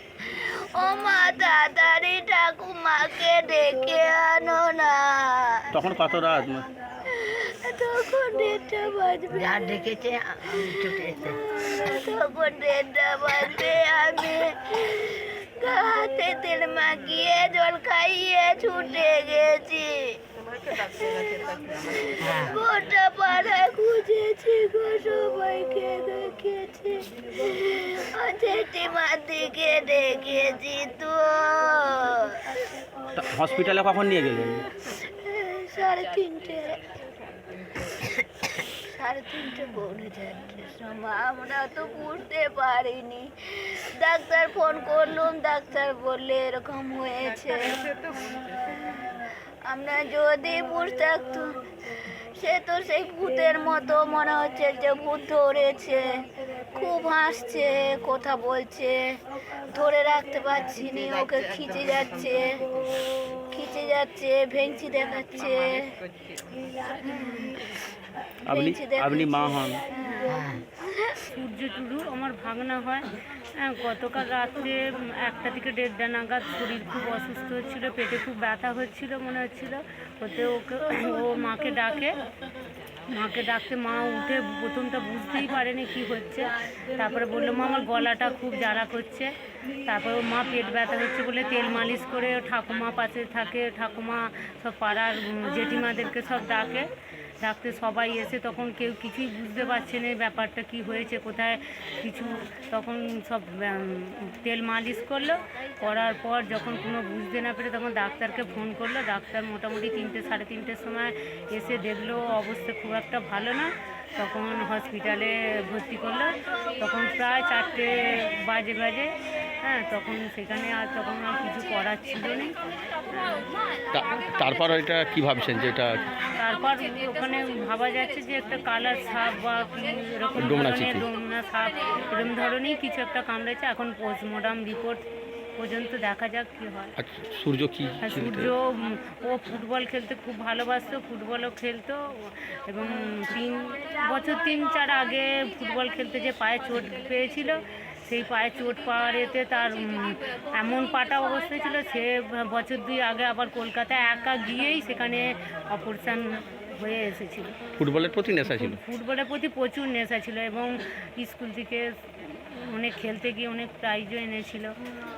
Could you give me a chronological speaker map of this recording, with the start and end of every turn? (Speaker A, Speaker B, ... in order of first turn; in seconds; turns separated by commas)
Speaker A: 0.3-5.7, Speaker B: 5.7-6.7, Speaker A: 7.1-20.2, Speaker A: 20.7-32.6, Speaker B: 33.1-34.7, Speaker A: 35.0-36.8, Speaker A: 38.9-51.6, Speaker A: 52.4-59.2, Speaker A: 59.7-65.9, Speaker A: 66.9-67.7, Speaker B: 68.5-69.8, Speaker A: 68.5-69.3, Speaker A: 69.9-71.2, Speaker C: 71.3-73.1, Speaker C: 73.6-82.1, Speaker C: 83.1-89.3, Speaker C: 89.8-96.9, Speaker C: 97.4-119.1, Speaker C: 119.7-122.5, Speaker C: 123.1-123.5, Speaker B: 123.9-126.0, Speaker C: 126.4-136.9, Speaker B: 130.4-131.1, Speaker B: 137.0-138.5, Speaker C: 138.0-157.6, Speaker B: 157.8-158.8, Speaker C: 158.4-164.7